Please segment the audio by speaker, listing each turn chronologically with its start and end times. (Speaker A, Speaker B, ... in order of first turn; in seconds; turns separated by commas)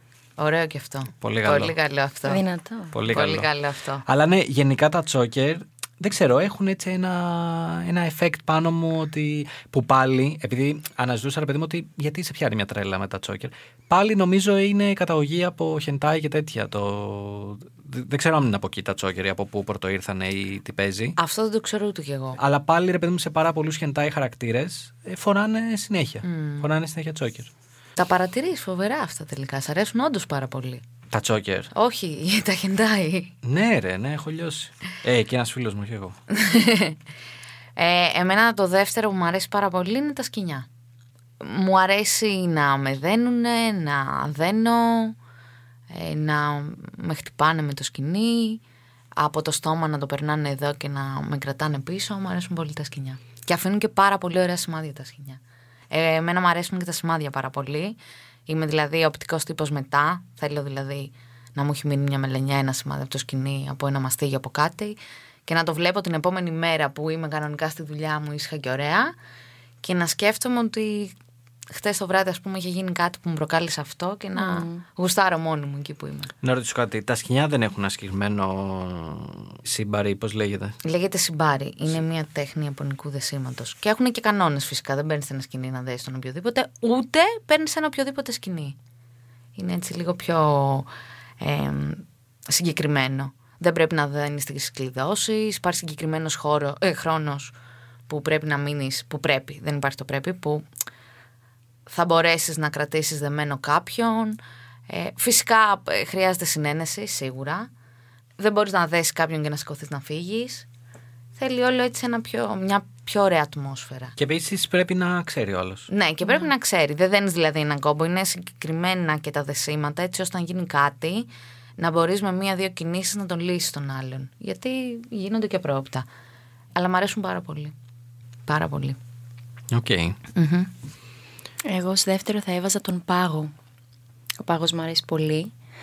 Speaker A: 0.4-2.4, Speaker B: 1.2-1.7, Speaker C: 2.2-3.0, Speaker B: 2.9-3.5, Speaker A: 3.1-4.0, Speaker B: 4.0-21.2, Speaker A: 21.2-22.4, Speaker B: 22.4-27.5, Speaker A: 26.2-26.7, Speaker A: 28.0-30.8, Speaker B: 31.1-31.7, Speaker A: 31.7-33.3, Speaker B: 33.4-36.1, Speaker A: 36.3-37.0, Speaker A: 37.8-40.7, Speaker A: 41.4-45.1, Speaker A: 45.9-48.6, Speaker A: 49.2-69.1, Speaker A: 69.8-71.1, Speaker A: 71.7-76.3, Speaker C: 74.4-74.8, Speaker B: 76.4-80.8, Speaker A: 80.8-88.8, Speaker A: 89.5-90.9, Speaker A: 91.4-97.5, Speaker A: 98.1-100.7, Speaker A: 101.9-107.7, Speaker A: 108.4-110.7, Speaker A: 111.4-114.2, Speaker B: 114.2-115.9, Speaker A: 115.9-126.1, Speaker A: 126.7-127.7, Speaker A: 128.5-129.0, Speaker B: 129.7-130.2, Speaker A: 130.3-130.7, Speaker C: 131.6-133.5, Speaker C: 134.4-135.5